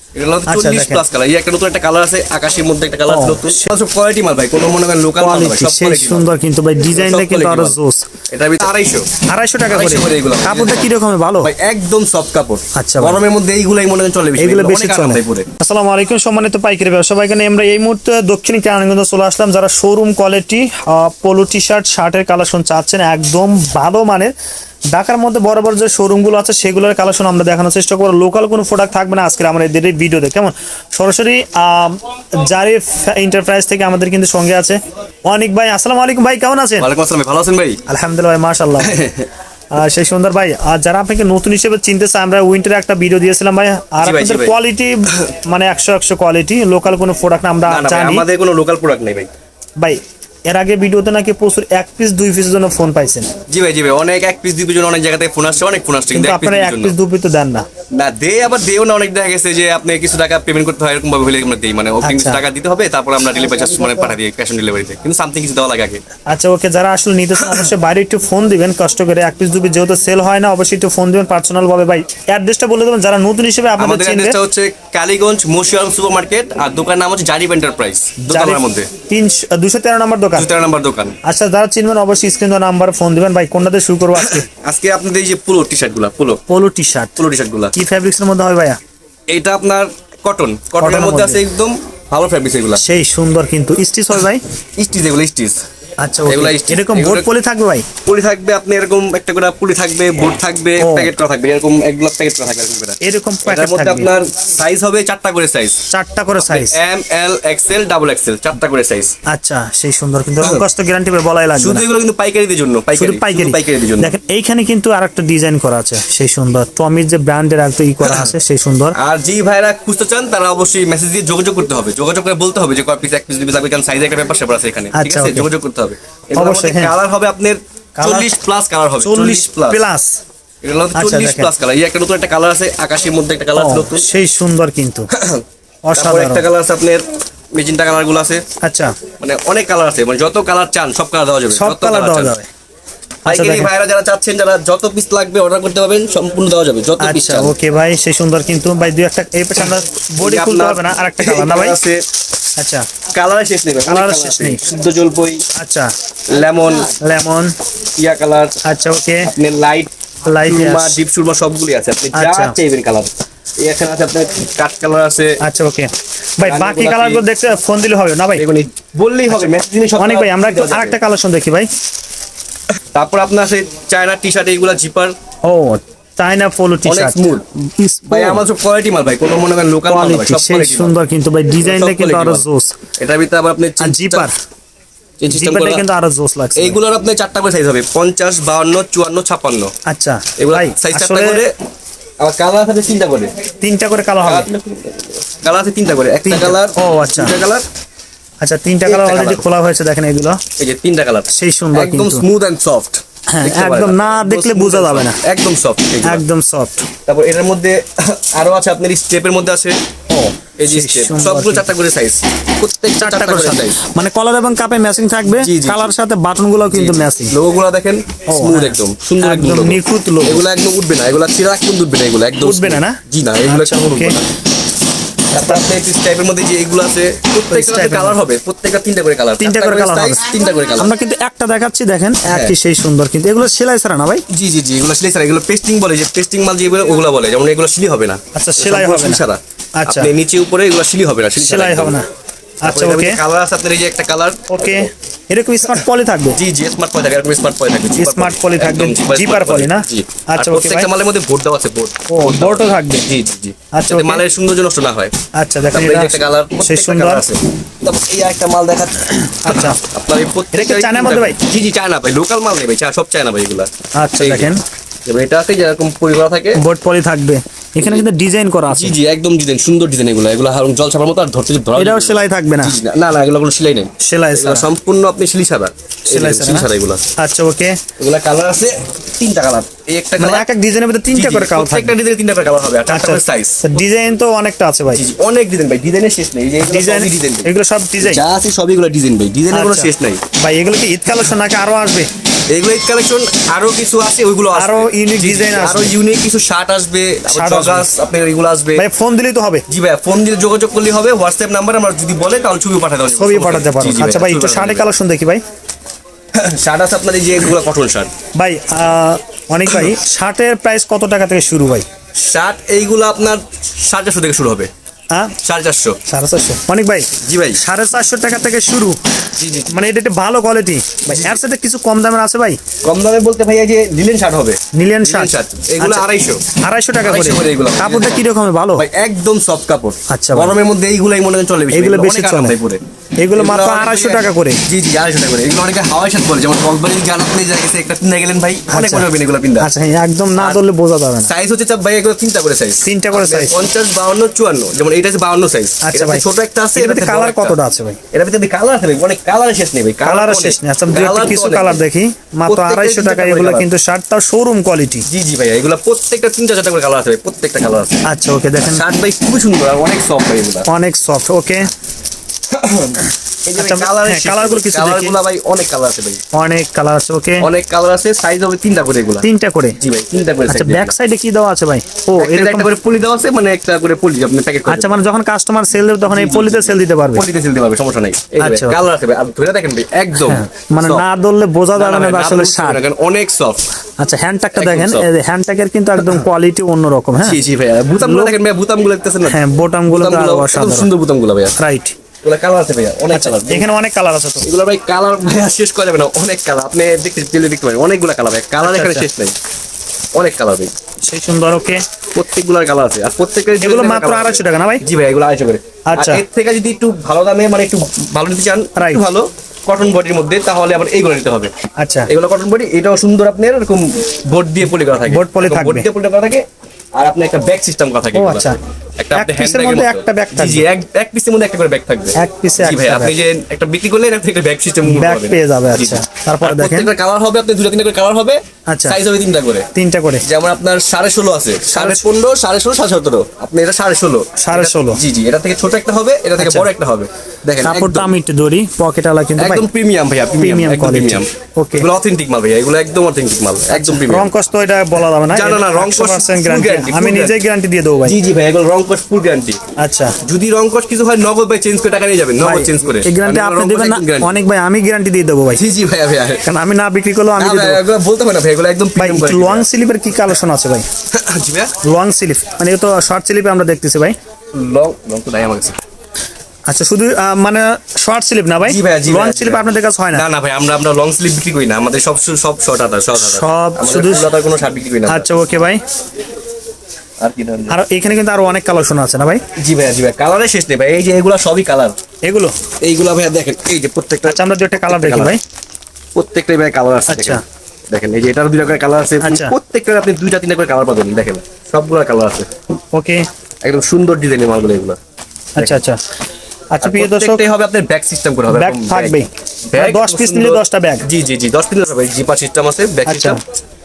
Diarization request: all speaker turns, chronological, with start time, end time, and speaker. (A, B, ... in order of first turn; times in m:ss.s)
0:00.1-0:06.3 A
0:00.5-0:01.0 B
0:03.1-0:03.7 B
0:05.2-0:08.1 B
0:06.9-0:07.8 A
0:08.3-0:09.1 A
0:09.3-0:11.5 B
0:09.7-0:15.5 A
0:12.7-0:13.2 B
0:14.4-0:24.3 B
0:24.9-0:36.9 B
0:36.8-0:37.8 A
0:37.9-0:39.0 B
0:38.8-0:39.3 A
0:39.7-0:48.2 B
0:44.0-0:44.5 A
0:47.7-0:49.3 A
0:49.8-0:53.3 B
0:53.5-0:56.9 A
0:56.1-0:57.6 B
0:57.9-1:06.0 A
1:02.0-1:02.4 B
1:06.3-1:14.4 B
1:07.4-1:07.7 A
1:13.8-1:18.9 A
1:18.3-1:20.5 B
1:20.3-1:21.2 A
1:21.2-1:24.5 B
1:24.2-1:26.4 A
1:26.5-1:27.2 B
1:27.2-1:27.7 A
1:27.7-1:28.8 B
1:29.3-1:32.8 A
1:30.8-1:31.4 B
1:32.8-1:34.4 B
1:34.8-1:35.6 A
1:36.0-1:37.9 B
1:36.2-1:37.3 A
1:38.0-1:45.8 A
1:40.8-1:41.2 B
1:43.0-1:44.1 B
1:45.9-1:46.8 B
1:46.4-1:49.1 A
1:49.3-1:51.8 B
1:51.6-1:54.1 A
1:53.0-1:59.0 B
1:58.0-1:58.3 A
1:58.9-2:09.8 A
2:04.9-2:05.5 B
2:06.3-2:06.9 B
2:08.0-2:08.3 B
2:09.0-2:10.1 B
2:10.6-2:14.1 A
2:10.9-2:11.5 B
2:13.6-2:15.1 B
2:15.1-2:15.4 A
2:15.8-2:16.4 B
2:15.9-2:18.4 A
2:18.6-2:18.9 B
2:19.2-2:22.4 A
2:21.5-2:22.5 B
2:23.2-2:27.5 A
2:23.3-2:23.7 B
2:27.0-2:31.8 B
2:30.2-2:32.0 A
2:32.6-2:32.9 B
2:33.1-2:35.4 A
2:33.9-2:34.6 B
2:35.5-2:35.9 B
2:36.3-2:36.9 A
2:37.0-2:37.5 B
2:38.0-2:38.6 A
2:38.6-2:39.3 B
2:39.2-2:39.9 A
2:40.2-2:41.0 B
2:40.4-2:45.4 A
2:42.1-2:42.5 B
2:45.4-2:48.4 B
2:46.4-2:47.2 A
2:48.4-2:51.0 A
2:49.3-2:51.7 B
2:52.9-2:55.1 A
2:55.4-2:58.4 B
2:56.8-2:57.4 A
2:58.1-3:00.9 A
2:59.9-3:02.7 B
3:01.6-3:02.4 A
3:03.0-3:04.3 A
3:03.8-3:04.3 B
3:05.2-3:05.8 A
3:05.3-3:06.8 B
3:06.6-3:09.7 A
3:09.9-3:11.4 B
3:10.4-3:11.5 A
3:12.2-3:13.3 A
3:13.6-3:14.5 B
3:14.2-3:17.6 A
3:16.2-3:17.3 B
3:18.4-3:20.4 B
3:18.8-3:19.4 A
3:20.6-3:26.2 A
3:21.3-3:22.2 B
3:23.3-3:25.2 B
3:26.0-3:26.9 B
3:27.0-3:29.8 A
3:30.1-3:31.7 B
3:30.6-3:33.8 A
3:33.0-3:37.3 B
3:35.3-3:35.9 A
3:36.7-3:44.2 A
3:38.3-3:40.4 B
3:42.4-3:44.2 B
3:45.3-3:50.9 A
3:45.3-3:45.6 B
3:47.5-3:48.2 B
3:49.4-3:54.2 B
3:52.3-3:52.5 A
3:54.3-4:02.0 A
3:58.3-3:59.2 B
3:59.8-4:00.1 B
4:01.4-4:02.0 B
4:02.6-4:03.2 B
4:02.6-4:04.9 A
4:04.5-4:06.4 B
4:06.3-4:15.1 A
4:08.0-4:10.9 B
4:12.1-4:13.1 B
4:13.7-4:14.2 B
4:15.3-4:17.2 B
4:15.7-4:24.5 A
4:19.2-4:19.8 B
4:20.5-4:21.4 B
4:24.0-4:24.6 B
4:25.0-4:26.6 A
4:26.6-4:28.9 B
4:28.7-4:37.0 A
4:31.8-4:32.8 B
4:34.0-4:34.7 B
4:36.1-4:37.8 B
4:38.0-4:40.5 A
4:40.2-4:41.9 B
4:41.1-4:43.7 A
4:42.9-4:45.0 B
4:44.9-4:50.2 A
4:46.6-4:48.2 B
4:49.5-4:52.1 B
4:52.5-4:58.8 A
4:54.5-4:55.9 B
4:57.3-4:57.9 B
4:58.8-4:59.6 B
4:59.7-5:04.9 A
5:03.1-5:05.4 B
5:06.3-5:08.1 A
5:08.3-5:11.8 B
5:12.2-5:14.7 A
5:15.4-5:16.0 A
5:16.1-5:19.0 B
5:17.2-5:17.6 A
5:19.4-5:19.8 A
5:19.7-5:22.6 B
5:21.0-5:21.4 A
5:22.8-5:26.4 A
5:24.7-5:26.0 B
5:26.6-5:28.8 B
5:27.0-5:28.2 A
5:28.8-5:32.8 A
5:30.1-5:30.6 B
5:31.7-5:32.6 B
5:33.2-5:34.6 B
5:33.3-5:39.7 A
5:38.7-5:41.3 B
5:40.4-5:40.6 A
5:41.2-5:47.6 A
5:42.8-5:43.6 B
5:45.8-5:46.2 B
5:46.8-5:48.0 B
5:48.1-5:51.8 A
5:50.0-5:55.0 B
5:52.4-5:53.7 A
5:55.1-5:58.0 A
5:58.0-5:58.8 B
5:58.6-6:00.7 A
6:00.7-6:01.7 B
6:02.5-6:06.2 A
6:03.6-6:05.2 B
6:06.3-6:07.5 B
6:07.4-6:09.3 A
6:09.2-6:09.8 B
6:09.8-6:10.9 A
6:10.5-6:12.7 B
6:12.2-6:15.0 A
6:14.7-6:17.2 B
6:16.0-6:21.0 A
6:18.4-6:18.8 B
6:20.2-6:22.8 B
6:21.7-6:23.6 A
6:24.0-6:27.4 B
6:24.6-6:25.1 A
6:26.0-6:26.2 A
6:27.2-6:31.5 A
6:28.0-6:28.4 B
6:29.3-6:30.9 B
6:31.6-6:32.0 B
6:32.2-6:33.7 A
6:33.1-6:34.5 B
6:34.4-6:39.3 A
6:38.6-6:39.1 B
6:40.1-6:40.7 A
6:41.0-6:41.8 B
6:42.1-6:51.5 A
6:43.6-6:44.8 B
6:45.8-6:46.2 B
6:48.8-6:49.0 B
6:51.8-6:52.1 B
6:52.1-7:09.7 A
6:55.1-6:55.9 B
6:58.1-6:58.6 B
6:59.1-7:00.6 B
7:02.2-7:03.1 B
7:04.8-7:06.9 B
7:08.7-7:09.0 B
7:09.7-7:10.2 B
7:10.2-7:18.1 A
7:11.7-7:12.0 B
7:14.4-7:15.0 B
7:16.4-7:16.7 B
7:17.6-7:19.6 B
7:19.4-7:24.3 A
7:20.4-7:21.9 B
7:23.7-7:28.1 B
7:25.3-7:27.4 A
7:28.0-7:29.6 A
7:29.8-7:30.2 B
7:30.2-7:34.4 A
7:32.4-7:35.6 B
7:35.5-7:36.5 A
7:36.4-7:37.8 B
7:37.4-7:39.6 A
7:39.0-7:40.9 B
7:41.1-7:41.7 A
7:41.8-7:44.1 B
7:44.5-7:45.8 A
7:46.7-7:50.2 B
7:48.6-7:55.4 A
7:53.2-7:54.3 B
7:55.1-7:55.8 B
7:57.2-7:57.8 A
7:57.7-7:59.4 B
7:59.6-8:02.0 A
8:02.2-8:02.5 B
8:02.8-8:05.4 A
8:04.2-8:05.4 B
8:06.1-8:12.5 A
8:07.1-8:07.4 B
8:09.2-8:09.6 B
8:12.9-8:13.3 B
8:13.6-8:15.0 A
8:15.6-8:16.0 B
8:16.7-8:17.4 B
8:16.8-8:23.4 A
8:18.5-8:21.1 B
8:23.1-8:23.4 B